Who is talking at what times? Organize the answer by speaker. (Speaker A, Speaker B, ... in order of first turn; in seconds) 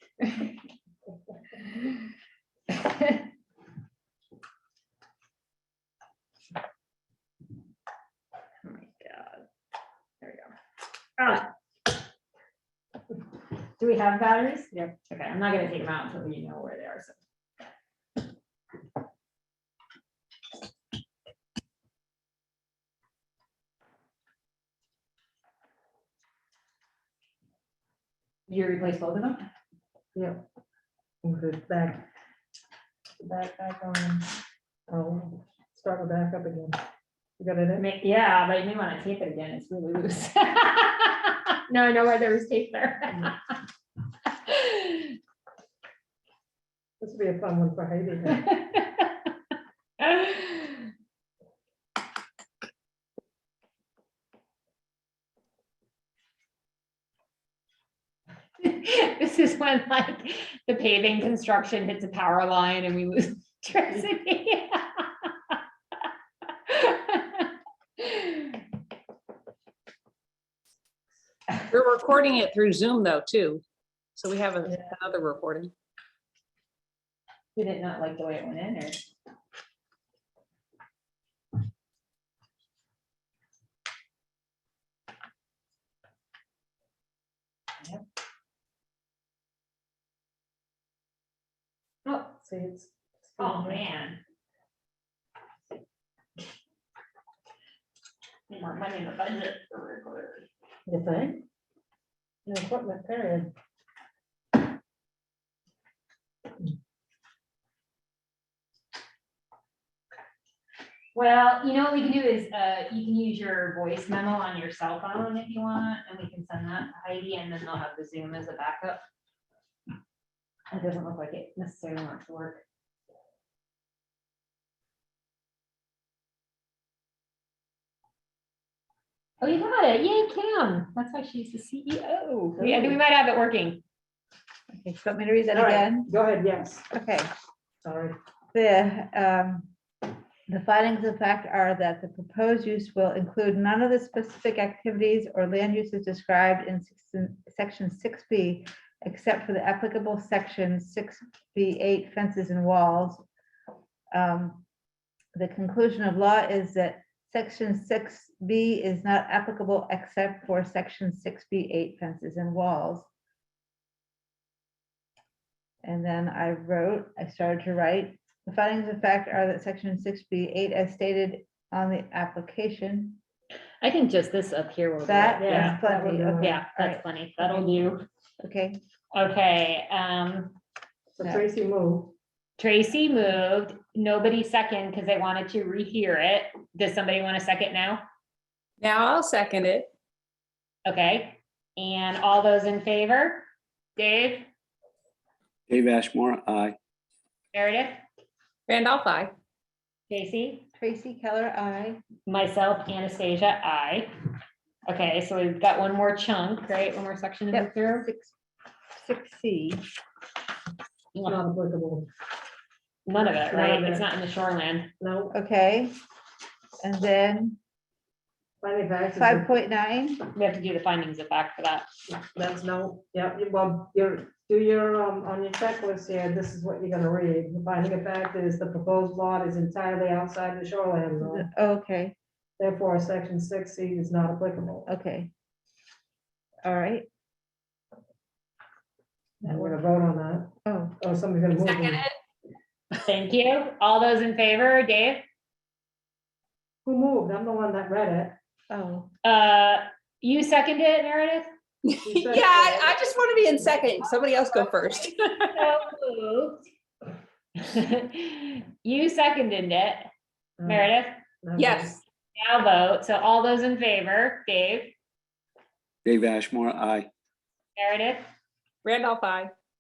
Speaker A: 0.2-0.5, 2.7-3.2, 8.6-9.4, 10.2-10.5, 11.2-11.5, 13.8-17.2, 28.5-29.4, 33.2-34.2, 37.8-43.4, 44.5-45.2, 48.3-49.3, 50.0-50.8, 58.6-65.6, 66.7-68.6, 77.5-79.0, 92.0-92.4, 93.4-94.2, 98.5-100.5, 111.1-119.0, 120.7-122.6, 129.4-133.8, 173.8-175.8, 176.4-178.1, 179.1-180.6, 182.6-188.0, 190.9-194.5, 197.5-198.0, 200.1-200.7, 202.3-204.1, 204.9-208.1, 211.2-211.4, 213.1-214.9, 220.3-221.9, 243.0-245.2, 249.2-251.5, 255.5-256.6, 257.6-260.1, 260.7-261.2, 262.4-264.9, 267.8-268.2
Speaker B: 30.1-30.4, 31.2-32.0, 34.9-36.8, 37.4-37.8, 47.0-48.5, 92.4-93.8, 100.9-101.4, 102.5-103.5, 132.6-132.9, 135.5-136.9, 137.8-138.2, 175.4-176.6, 181.2-182.1, 211.2-212.1, 213.5-214.0, 215.0-215.3, 218.6-219.5, 222.2-231.5, 232.6-234.9, 239.4-242.0, 246.8-248.4, 252.0-253.0, 260.6-260.9, 261.4-262.0
Speaker C: 71.7-73.6, 74.2-75.7, 188.8-189.9, 198.7-199.3, 241.7-242.0, 251.9-255.3, 261.6-262.0, 268.9-269.5
Speaker D: 134.7-136.1, 136.9-137.3, 138.5-139.7, 140.5-153.3, 154.1-154.7, 155.3-163.1, 165.8-173.2, 175.1-177.7, 178.4-178.8, 200.8-202.0, 207.5-208.3, 208.9-209.8, 215.3-216.0, 216.8-217.6, 219.2-220.3, 231.2-232.2, 234.9-235.3, 236.6-237.1, 239.4-239.8, 240.7-241.0, 248.7-249.1
Speaker E: 195.7-196.8, 266.1-267.1